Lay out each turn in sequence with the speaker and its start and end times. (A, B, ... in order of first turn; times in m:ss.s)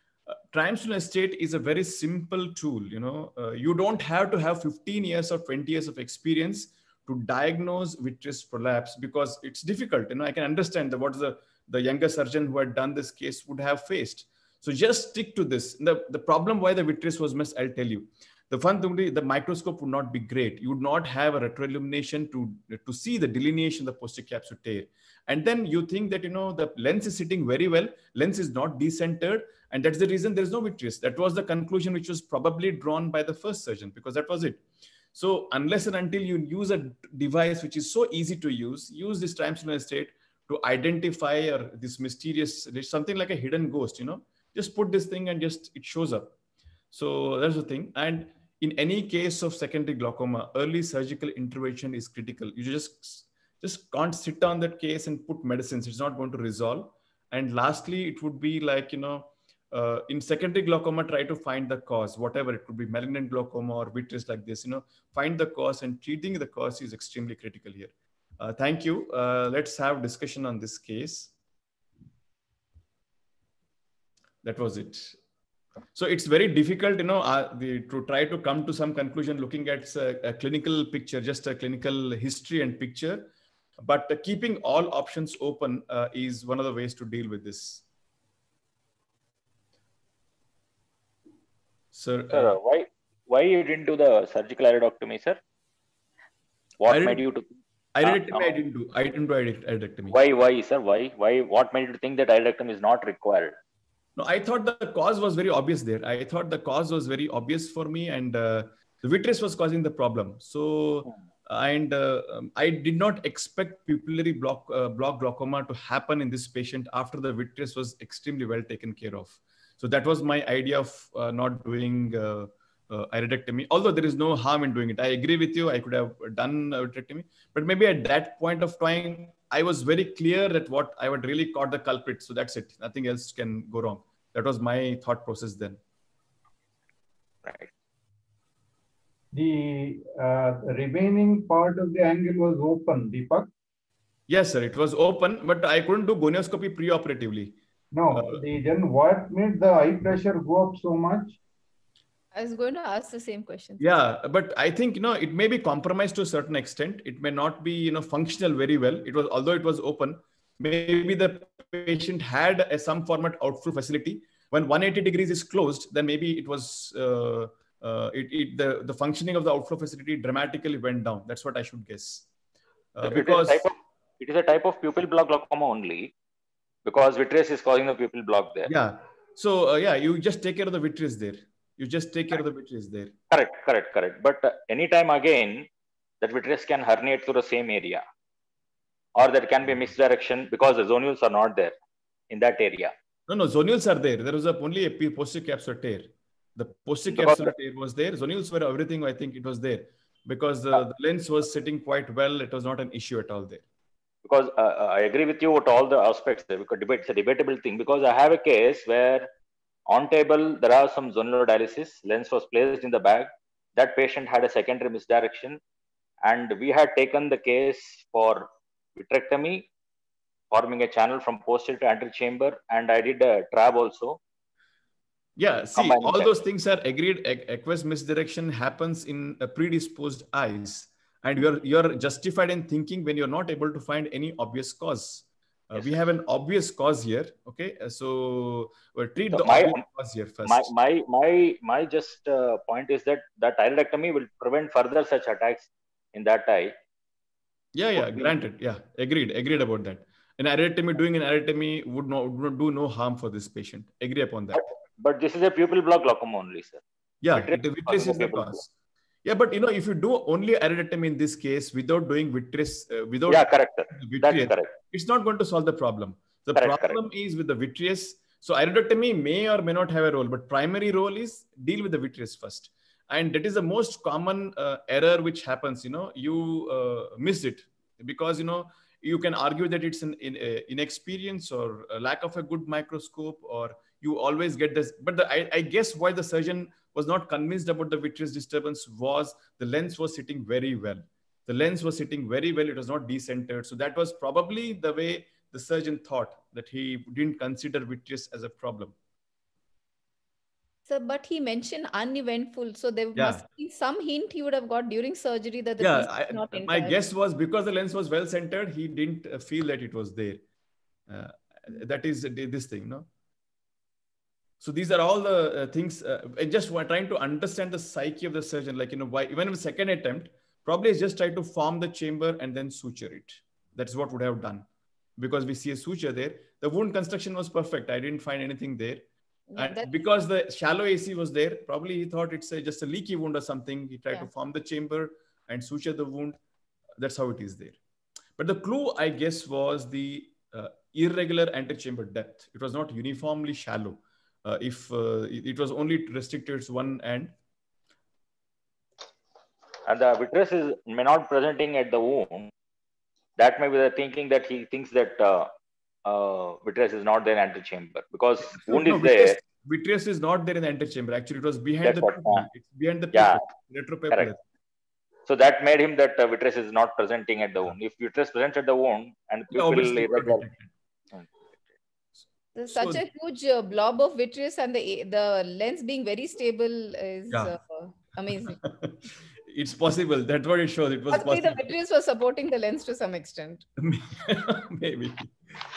0:00.5-0:34.6 A
0:35.1-0:46.3 A
0:46.9-1:11.3 A
1:14.4-1:15.2 A
1:15.9-1:23.3 A
1:23.8-1:27.8 A
1:31.9-1:32.6 A
1:32.3-1:35.4 B
1:36.8-1:37.5 B
1:36.9-1:37.2 A
1:37.9-1:40.2 A
1:38.0-1:38.6 B
1:40.1-1:43.5 B
1:44.2-2:15.8 A
2:17.4-2:17.7 B
2:19.3-2:23.5 C
2:24.3-2:27.6 A
2:27.9-2:31.4 C
2:28.1-2:28.4 A
2:32.3-2:33.9 D
2:33.8-2:52.3 A
2:52.9-2:53.6 A
2:53.0-2:56.1 B
2:56.8-2:58.7 B
2:58.7-3:03.1 A
3:03.3-3:05.7 B
3:06.2-3:08.0 B
3:09.2-3:11.7 B
3:12.3-3:12.9 B
3:13.3-3:23.6 A
3:17.1-3:17.5 B
3:24.2-3:29.3 B
3:29.9-3:35.6 B
3:36.2-3:39.7 B
3:40.5-3:44.2 B
3:45.4-4:00.7 A
3:45.8-3:46.3 B
3:59.3-3:59.8 B
4:00.4-4:06.7 B
4:07.7-4:14.6 A
4:08.0-4:08.3 B
4:14.5-4:18.6 B
4:17.2-4:18.7 A
4:19.2-4:58.9 A
4:23.3-4:24.7 B
4:26.6-4:27.0 B
5:00.9-5:07.0 D
5:03.2-5:03.4 A
5:05.8-5:10.4 A
5:11.1-5:13.1 A
5:14.6-5:24.6 A
5:25.2-5:29.0 A
5:29.5-5:30.0 D
5:29.6-5:36.4 A
5:37.0-5:37.8 A
5:38.4-5:47.3 A
5:49.9-5:52.5 B
5:53.4-5:55.5 B
5:56.0-5:59.4 B
5:58.5-6:04.4 A
6:01.8-6:02.4 B
6:03.1-6:03.4 B
6:05.2-6:10.4 B
6:09.5-6:10.7 A
6:12.6-6:18.6 D
6:12.7-6:13.0 A
6:18.5-6:21.7 A
6:21.1-6:23.6 D
6:23.8-6:25.3 A